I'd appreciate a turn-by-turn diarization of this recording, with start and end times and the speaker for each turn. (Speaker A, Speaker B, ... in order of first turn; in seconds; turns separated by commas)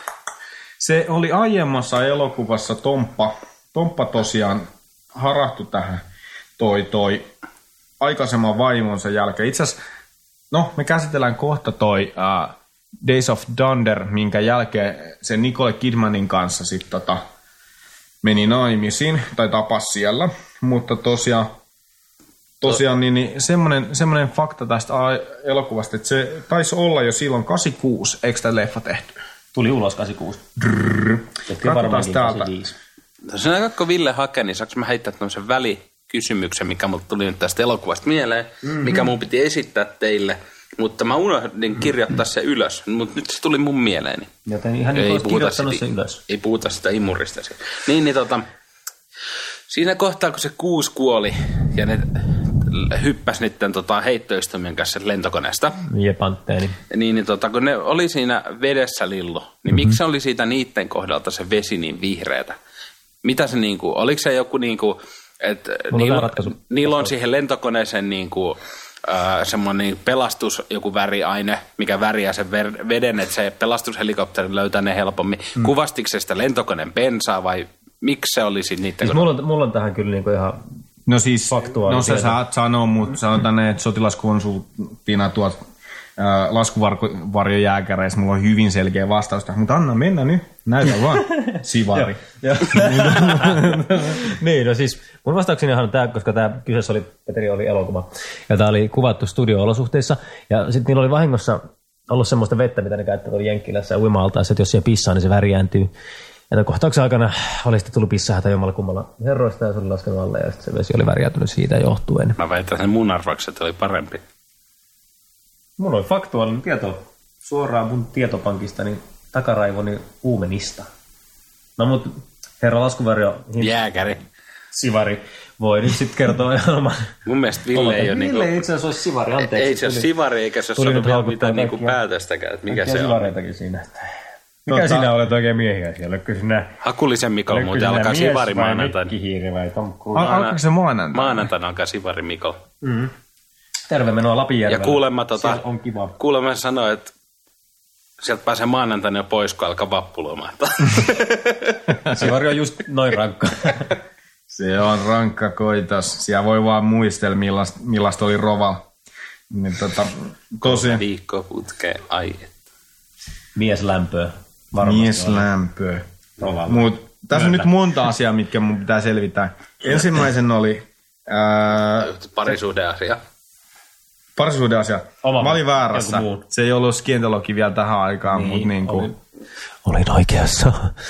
Speaker A: 0.8-6.0, Speaker A: 6.6-7.3, Speaker A: 8.0-9.8, Speaker A: 10.5-17.2, Speaker A: 18.2-21.5, Speaker A: 22.6-29.2, Speaker B: 29.5-30.4, Speaker A: 30.6-32.5, Speaker B: 31.5-32.8, Speaker C: 33.3-44.3, Speaker B: 38.6-39.1, Speaker B: 44.5-46.2, Speaker C: 44.9-48.5, Speaker C: 49.7-55.8, Speaker B: 55.9-56.8, Speaker C: 56.9-62.6, Speaker C: 63.2-79.3, Speaker B: 65.9-67.1, Speaker B: 79.0-80.6, Speaker A: 81.1-85.6, Speaker B: 81.5-82.4, Speaker A: 86.2-94.1, Speaker B: 91.9-105.9, Speaker B: 106.5-112.4, Speaker C: 112.4-114.2, Speaker B: 115.8-120.9, Speaker B: 121.8-123.8, Speaker C: 123.6-124.2, Speaker B: 124.7-127.1, Speaker C: 127.3-128.6, Speaker B: 127.7-130.1, Speaker C: 129.4-133.3, Speaker B: 130.8-132.0, Speaker B: 132.7-134.1, Speaker B: 134.7-136.8, Speaker A: 134.7-135.1, Speaker C: 136.8-139.1, Speaker B: 137.5-140.4, Speaker A: 140.2-141.5, Speaker C: 140.2-140.6, Speaker C: 141.1-142.6, Speaker B: 142.8-143.1, Speaker B: 143.9-146.2, Speaker C: 144.7-145.6, Speaker C: 146.2-147.1, Speaker C: 148.2-151.8, Speaker B: 152.1-153.9, Speaker A: 154.5-158.9, Speaker A: 159.5-161.0, Speaker C: 160.6-162.6, Speaker B: 163.6-165.5, Speaker A: 164.8-166.1, Speaker B: 166.4-167.7, Speaker A: 166.7-172.1, Speaker C: 172.0-173.2, Speaker A: 174.4-179.1, Speaker B: 175.2-176.4, Speaker B: 178.3-179.2, Speaker B: 179.8-180.9